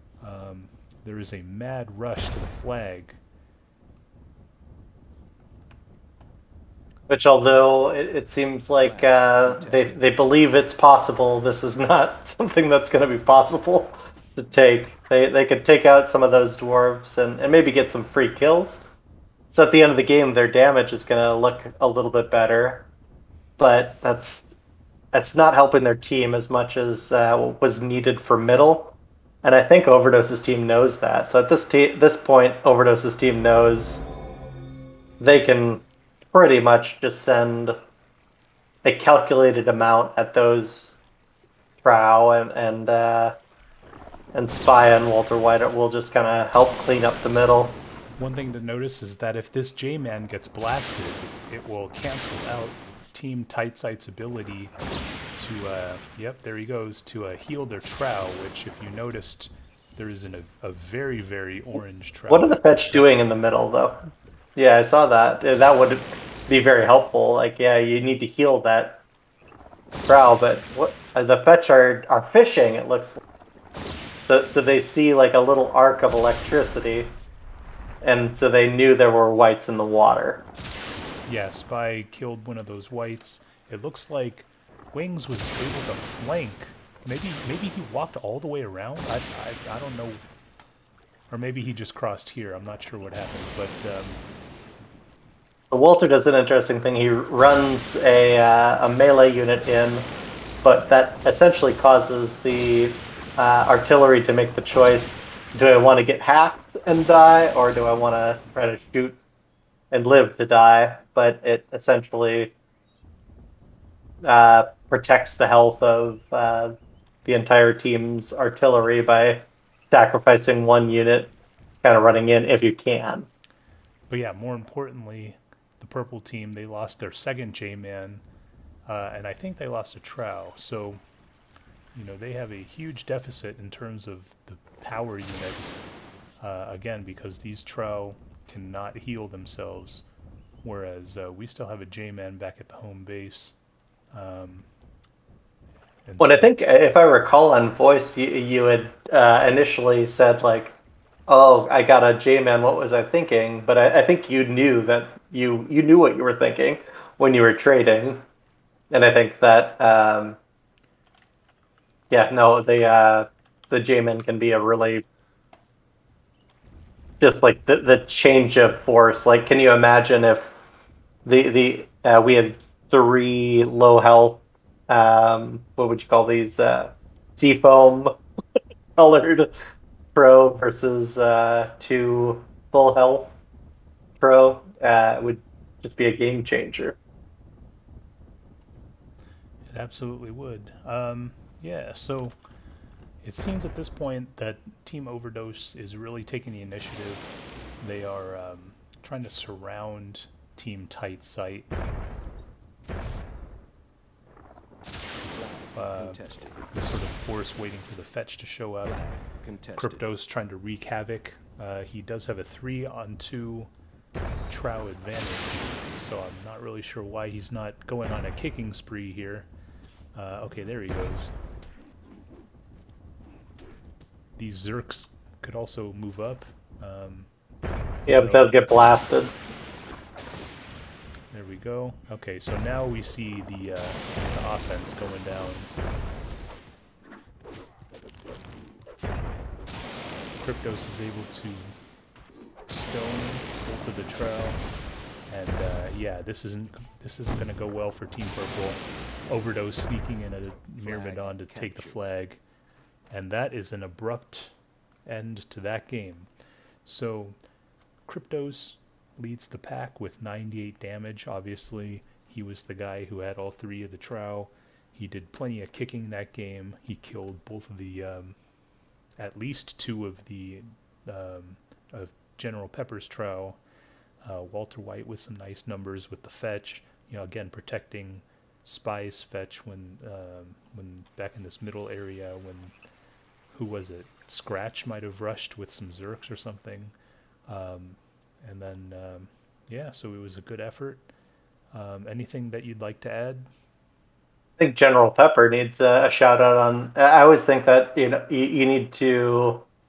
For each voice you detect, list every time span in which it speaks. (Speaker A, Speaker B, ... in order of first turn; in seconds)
Speaker A: 0.2-3.2, 48.2-54.7, 55.3-63.1, 81.3-90.2, 91.3-94.2, 124.1-128.2, 128.9-131.0, 131.9-135.8, 136.4-140.1, 140.6-143.6, 144.1-144.7, 146.1-146.5, 189.7-192.4, 193.2-201.7, 205.8-209.2, 209.8-213.7, 214.5-219.5, 220.2-221.3, 224.4-227.3, 228.1-228.6, 231.3-235.7, 240.4-241.8, 242.7-244.6, 245.3-252.4, 253.1-254.5, 255.1-256.3, 256.9-257.4, 258.1-268.4, 269.2-273.6, 274.2-282.7, 283.5-286.9, 287.5-291.1, 291.7-293.5
Speaker B: 7.1-18.9, 19.5-22.9, 23.6-24.4, 25.1-34.1, 35.2-37.8, 38.8-41.0, 41.8-43.4, 44.3-47.8, 62.3-69.0, 70.0-73.2, 74.3-77.1, 78.0-80.5, 95.7-100.1, 100.6-109.2, 109.9-112.5, 114.2-123.3, 146.2-150.8, 151.3-158.2, 158.9-160.4, 162.1-165.1, 167.2-170.6, 171.2-178.2, 179.0-179.5, 180.1-183.3, 184.2-187.0, 228.1-229.3, 294.6-299.6
Speaker C: 8.8-10.0, 205.3-206.7, 209.3-210.1, 250.8-252.0